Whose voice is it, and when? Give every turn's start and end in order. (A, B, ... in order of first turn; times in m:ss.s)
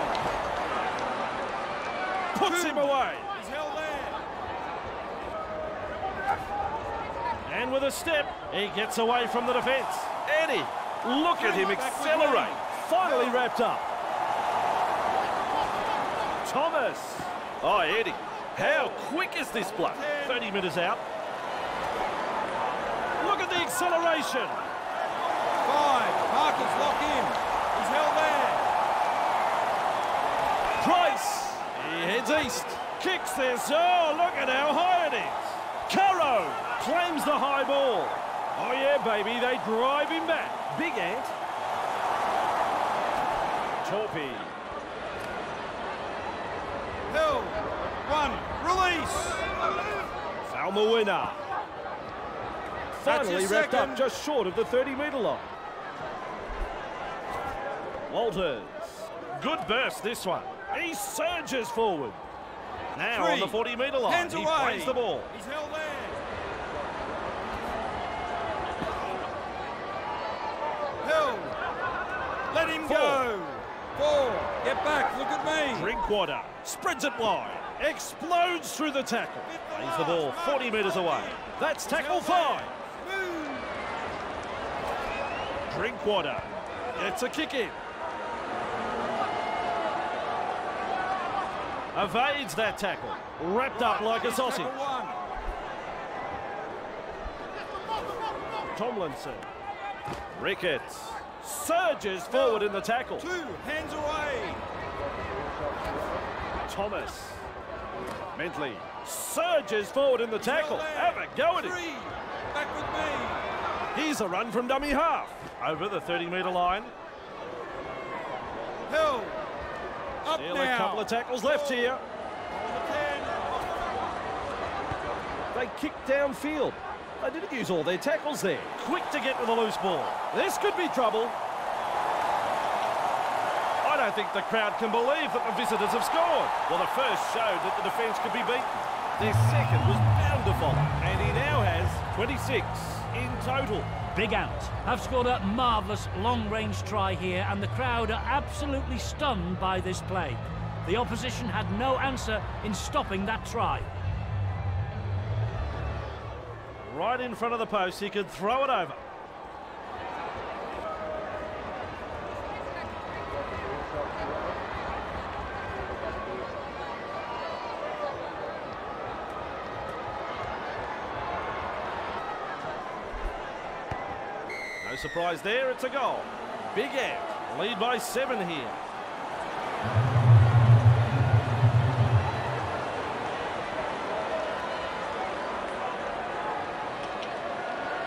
0:02.3-0:03.4 A
0:02.4-0:04.3 B
0:07.4-0:13.9 A
0:11.4-0:13.4 B
0:16.4-0:21.0 A
0:18.6-0:20.5 B
0:23.2-0:24.7 A
0:25.7-0:28.7 B
0:30.8-0:41.4 A
0:43.8-0:44.6 A
0:47.1-0:49.5 B
0:50.5-0:51.4 A
0:53.0-0:55.5 A
0:53.1-0:54.1 B
0:58.1-1:02.2 A
1:03.0-1:05.3 A
1:03.1-1:06.2 B
1:11.0-1:11.6 B
1:12.5-1:15.9 B
1:12.8-1:13.3 A
1:15.7-1:22.8 A
1:19.5-1:23.7 B
1:25.7-1:27.8 A
1:31.9-1:34.8 A
1:33.8-1:35.2 B
1:38.7-1:39.5 A
1:40.3-1:43.3 A
1:42.3-1:44.6 B
1:46.7-1:47.5 A
1:48.4-1:51.8 A
1:50.4-1:53.5 B
1:53.9-1:57.0 A
1:58.9-1:59.6 B
2:00.2-2:03.6 B
2:00.3-2:02.0 A
2:05.5-2:11.4 A
2:13.8-2:23.9 A
2:24.1-2:33.9 C
2:36.8-2:39.0 A
2:54.8-2:58.8 A